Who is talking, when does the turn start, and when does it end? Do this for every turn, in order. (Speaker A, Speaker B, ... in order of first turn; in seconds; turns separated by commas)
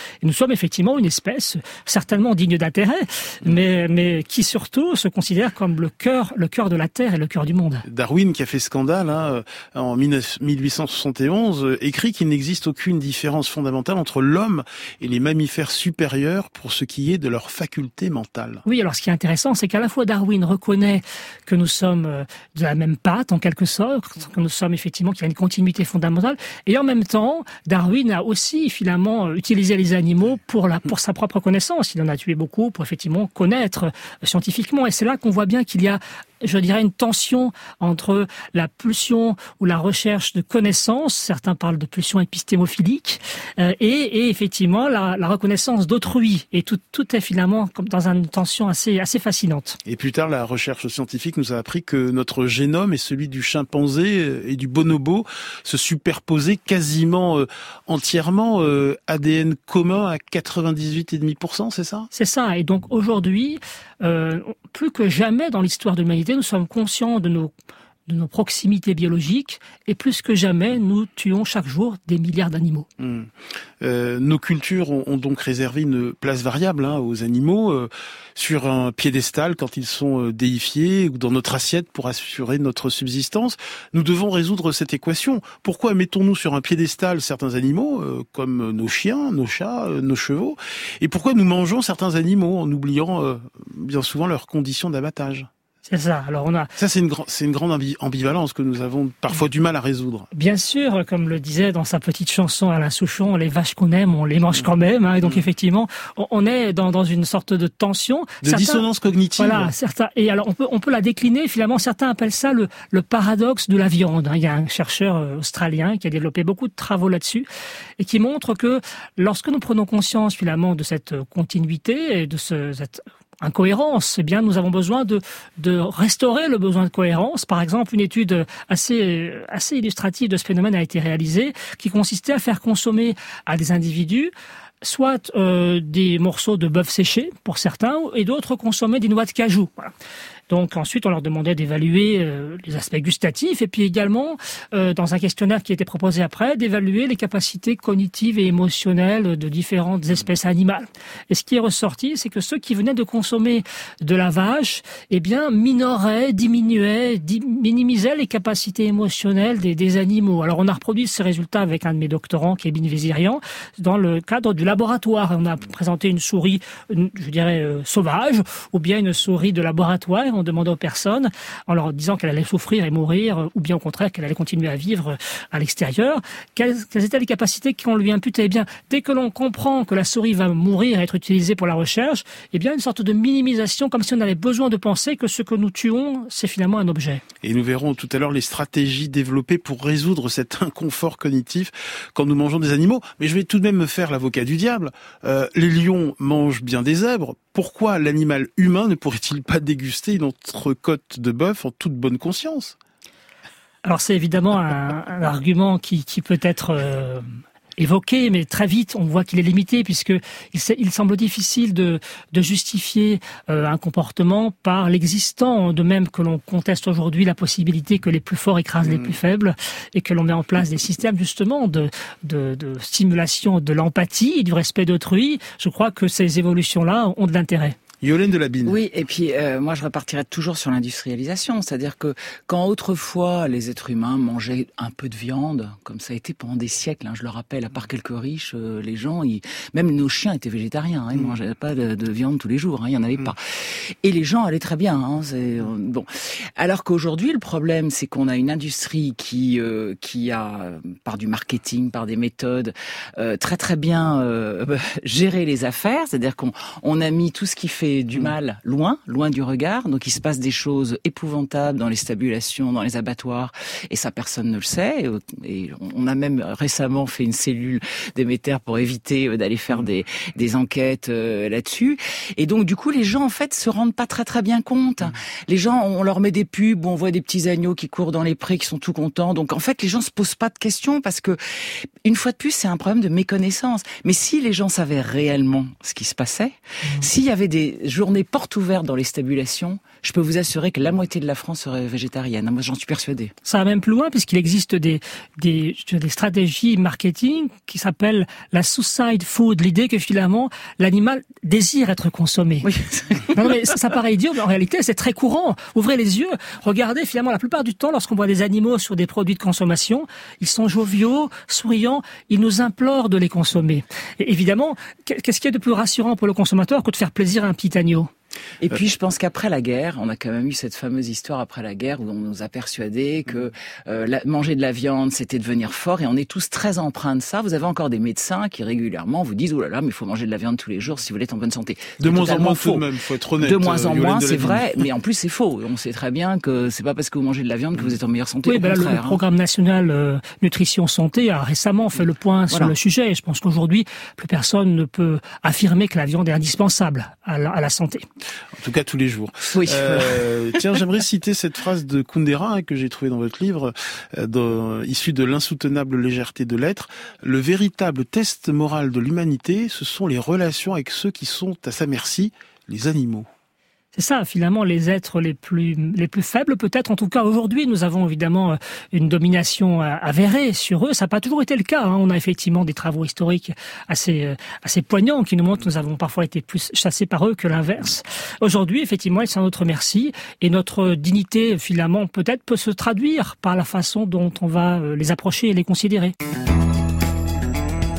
Speaker A: 0.2-7.8, Speaker B: 7.8-18.6, Speaker A: 18.6-49.8, Speaker B: 49.9-62.1, Speaker A: 62.1-67.5, Speaker A: 68.1-72.9, Speaker B: 73.0-95.5, Speaker A: 95.9-96.7, Speaker B: 96.8-100.3, Speaker A: 100.3-108.8, Speaker B: 108.4-109.7, Speaker A: 109.4-117.5, Speaker A: 118.0-139.9, Speaker A: 140.5-187.2, Speaker B: 187.4-202.8, Speaker A: 203.8-227.8, Speaker B: 218.8-219.1, Speaker B: 228.0-228.8, Speaker C: 228.7-293.3, Speaker A: 293.4-302.7, Speaker C: 302.6-303.5, Speaker A: 303.3-318.1, Speaker C: 318.6-332.9, Speaker B: 332.0-334.9, Speaker C: 333.4-339.2, Speaker A: 338.4-348.0, Speaker B: 348.5-363.3, Speaker C: 349.5-350.7, Speaker A: 363.9-386.1